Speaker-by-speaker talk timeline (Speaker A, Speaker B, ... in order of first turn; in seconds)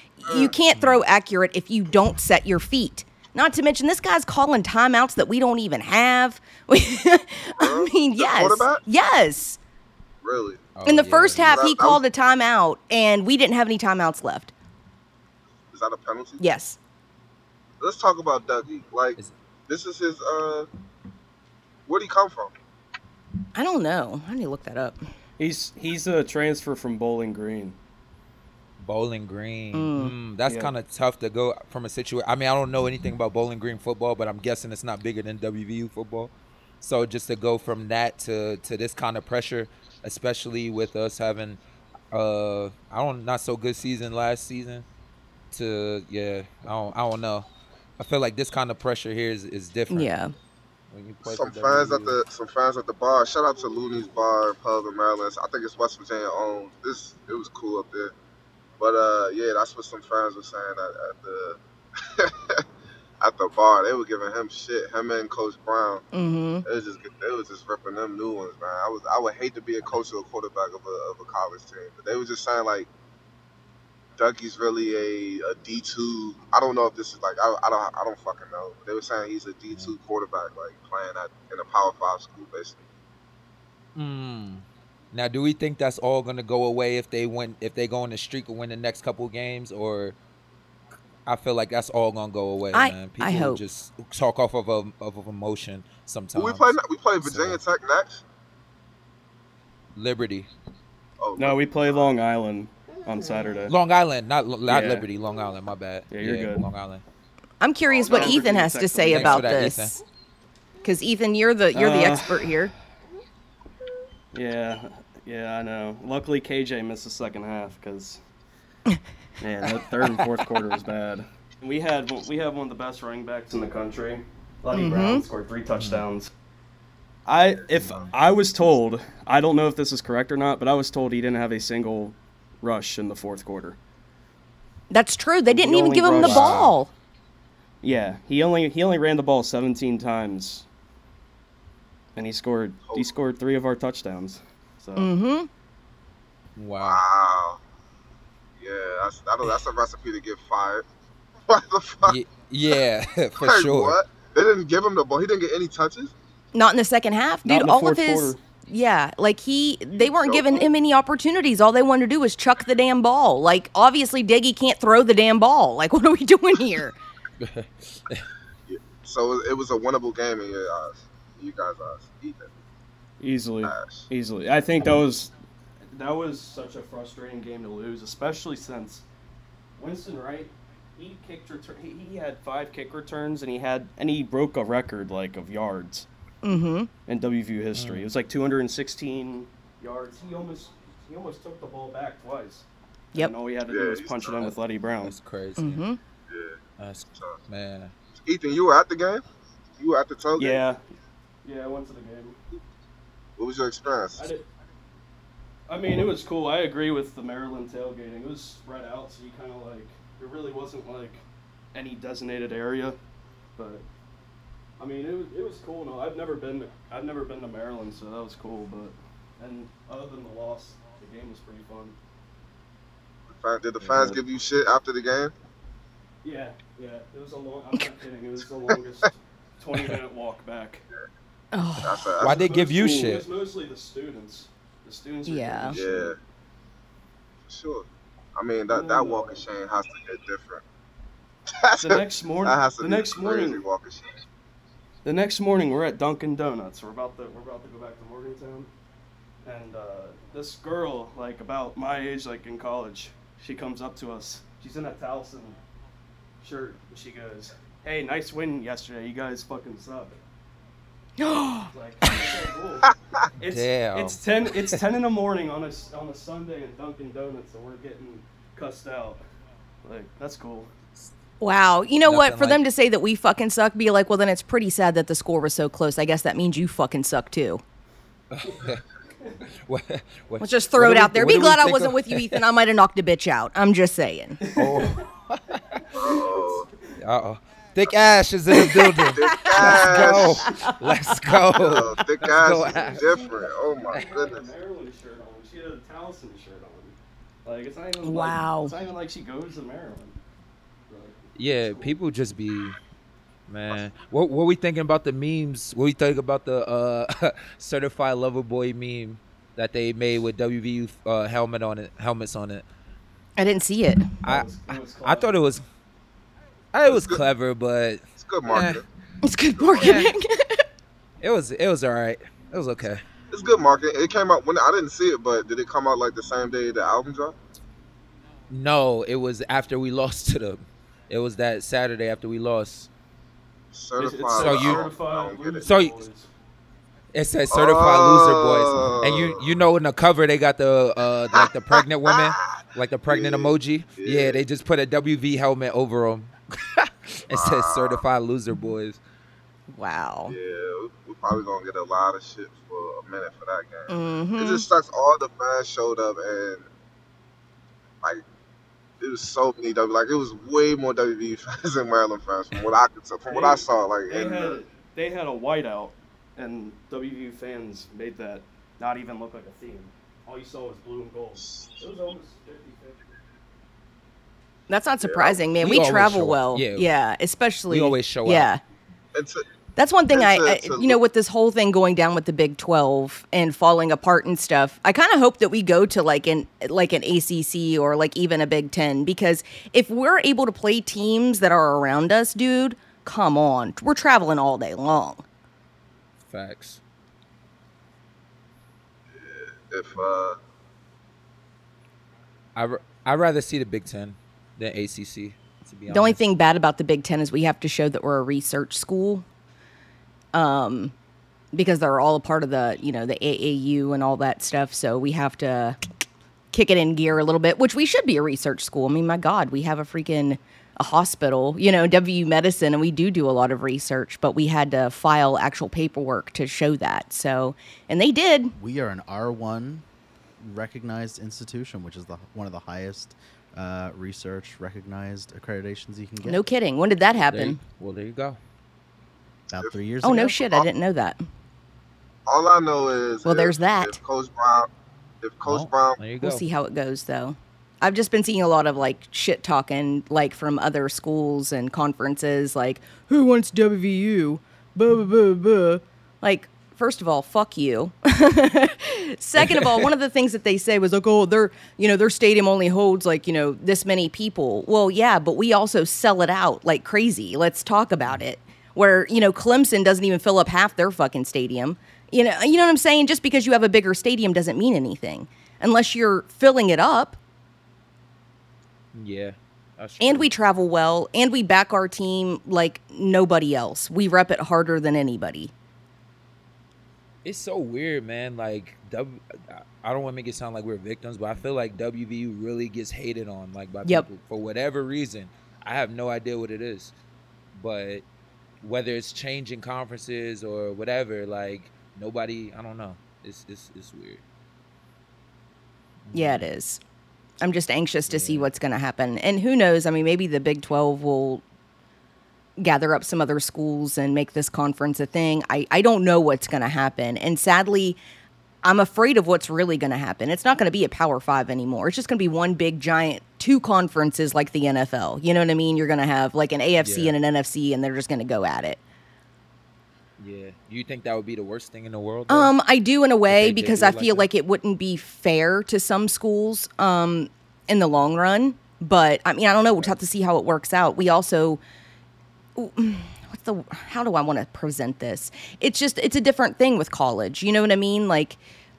Speaker A: 0.2-9.6, 10.8-14.5, 16.4-16.8, 23.6-25.1, 29.7-30.1, 49.9-50.3, 66.1-66.6, 92.7-93.6, 107.6-110.0, 110.8-112.7, 124.7-125.2, 134.9-136.9, 145.0-145.5, 156.5-167.0, 186.4-186.9, 195.6-196.0, 231.5-232.1, 235.3-235.8, 261.2-261.7, 271.4-277.6, 280.4-284.5, 288.5-291.4, 298.0-298.8, 313.4-314.1, 319.2-320.6, 349.7-350.4, 353.9-354.7, 374.7-378.6, 379.8-395.2, 405.9-409.2, 410.3-410.9, 411.5-415.8, 416.5-428.5, 436.2-437.6, 440.0-441.2, 443.2-444.0, 446.2-477.2, 480.0-485.5, 506.1-506.8, 507.4-511.4, 512.6-518.0, 518.6-528.8, 532.3-541.6, 542.6-548.4
Speaker B: 0.3-0.6, 7.6-8.8, 10.2-10.7, 11.4-12.0, 15.7-16.4, 17.8-20.7, 21.9-22.5, 51.2-58.1, 58.8-62.6, 63.2-66.0, 66.7-72.9, 74.2-82.8, 96.3-98.2, 101.2-102.1, 107.9-108.4, 142.9-143.1, 146.8-147.6, 148.6-150.8, 151.5-152.2, 153.4-156.1, 160.0-160.7, 168.7-172.5, 173.6-174.1, 193.7-194.5, 196.3-196.6, 198.2-199.2, 199.8-200.6, 203.4-204.3, 223.3-225.3, 231.8-232.5, 235.7-236.2, 237.5-240.6, 241.5-244.2, 285.9-286.7, 289.1-290.6, 291.6-294.5, 316.9-317.2, 318.2-318.9, 319.6-320.0, 323.3-327.4, 333.7-335.7, 337.5-339.6, 343.1-344.4, 347.3-348.0, 350.3-356.7, 359.0-364.6, 371.4-371.8, 375.0-375.5, 379.1-379.4, 380.1-381.0, 399.1-400.4, 442.3-444.7, 445.2-446.0
Speaker C: 0.8-1.0, 10.8-11.5, 28.8-41.6, 42.1-44.9, 45.5-47.5, 48.0-50.1, 50.9-52.2, 84.0-90.2, 91.3-97.6, 100.0-100.5, 103.7-107.0, 109.1-110.0, 125.8-126.0, 136.2-136.8, 146.6-147.0, 152.1-153.9, 167.4-168.3, 187.7-188.1, 194.4-195.8, 196.8-197.9, 232.2-233.2, 263.4-264.8, 272.1-272.6, 278.3-278.8, 279.5-282.4, 284.5-285.9, 287.0-293.0, 301.4-302.8, 303.5-312.6, 314.2-315.6, 316.7-318.8, 319.8-320.1, 321.2-323.0, 328.5-332.9, 334.4-334.9, 335.6-336.0, 337.1-349.0, 375.6-376.9, 377.7-378.5, 396.2-396.8, 402.6-406.2, 437.3-438.4, 445.4-446.4, 459.4-459.9, 478.9-480.3, 487.2-496.9, 497.5-498.1, 498.6-504.2, 506.1-506.5, 508.1-508.5, 526.8-527.1, 530.2-532.5, 533.3-534.3
Speaker D: 25.4-27.8, 30.5-30.7, 101.4-103.8, 104.7-105.1, 106.1-106.7, 108.1-109.7, 111.7-112.5, 114.3-118.2, 119.4-126.3, 127.3-133.8, 135.5-136.7, 137.8-140.7, 142.2-145.1, 157.4-158.4, 173.2-175.3, 175.9-179.0, 179.8-186.1, 187.1-195.2, 200.4-200.8, 201.4-202.4, 204.2-204.5, 205.7-211.2, 211.7-213.0, 213.6-213.8, 214.8-222.0, 223.8-224.2, 226.2-230.8, 232.2-236.2, 238.7-239.4, 241.8-243.6, 245.0-248.7, 249.4-255.6, 256.4-260.2, 261.7-269.2, 269.8-270.7, 284.4-285.0, 285.9-286.9, 292.7-300.2, 300.9-302.0, 314.2-315.4, 334.0-336.3, 363.3-373.0
Speaker E: 428.6-429.8, 430.4-436.4, 439.5-440.5